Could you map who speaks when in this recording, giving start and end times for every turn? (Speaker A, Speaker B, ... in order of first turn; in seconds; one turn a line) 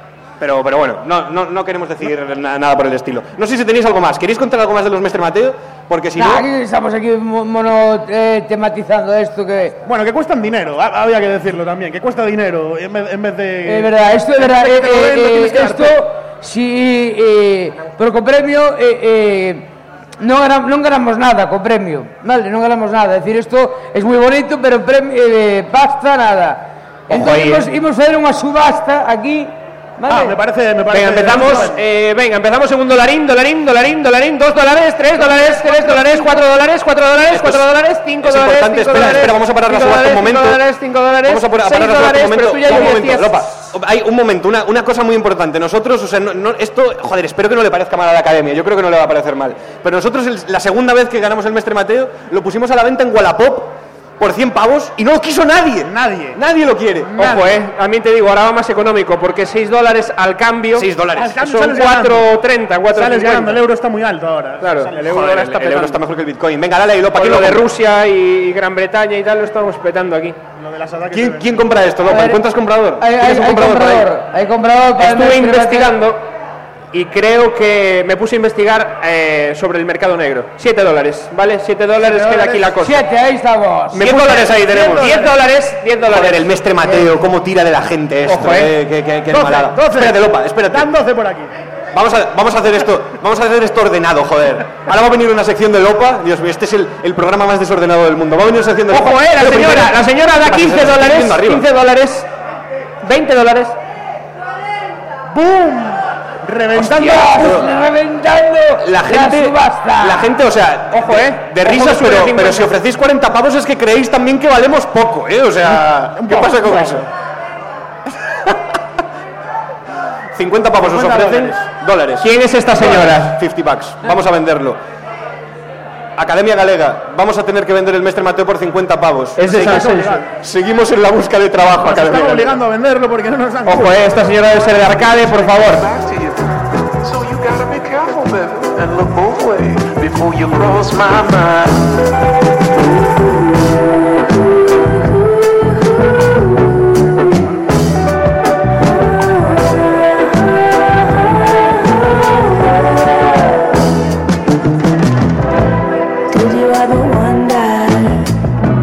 Speaker A: 0.4-6.5
Speaker B: 6.2-9.8
Speaker C: 9.9-16.0
Speaker B: 13.6-30.4
Speaker D: 27.1-27.7
Speaker C: 30.1-31.8
Speaker D: 30.9-43.6
Speaker A: 37.3-37.7
Speaker A: 38.2-40.6
Speaker A: 41.2-57.1
Speaker C: 55.8-56.4
Speaker C: 57.0-57.6
Speaker D: 57.2-63.6
Speaker A: 60.8-61.4
Speaker C: 61.1-62.2
Speaker C: 62.9-65.3
Speaker D: 64.6-66.0
Speaker A: 65.0-67.7
Speaker D: 67.1-70.4
Speaker C: 70.6-71.5
Speaker A: 71.1-74.1
Speaker B: 72.0-72.4
Speaker B: 73.0-75.9
Speaker D: 75.0-76.2
Speaker D: 76.9-83.0
Speaker C: 82.0-82.7
Speaker B: 82.8-84.0
Speaker D: 83.9-86.5
Speaker A: 84.0-85.1
Speaker C: 84.4-85.3
Speaker A: 86.1-90.9
Speaker D: 88.2-88.7
Speaker C: 89.3-91.5
Speaker A: 91.9-101.6
Speaker D: 98.9-102.3
Speaker D: 103.0-103.8
Speaker C: 105.3-107.6
Speaker A: 106.7-107.7
Speaker B: 106.9-110.3
Speaker A: 108.8-117.1
Speaker D: 110.9-112.8
Speaker C: 116.2-117.0
Speaker A: 120.3-124.8
Speaker C: 120.8-121.6
Speaker D: 122.2-123.4
Speaker A: 126.2-132.6
Speaker D: 129.4-130.2
Speaker C: 129.5-130.2
Speaker C: 131.8-134.0
Speaker D: 133.7-135.9
Speaker E: 137.1-141.7
Speaker F: 152.2-153.1
Speaker F: 156.3-158.3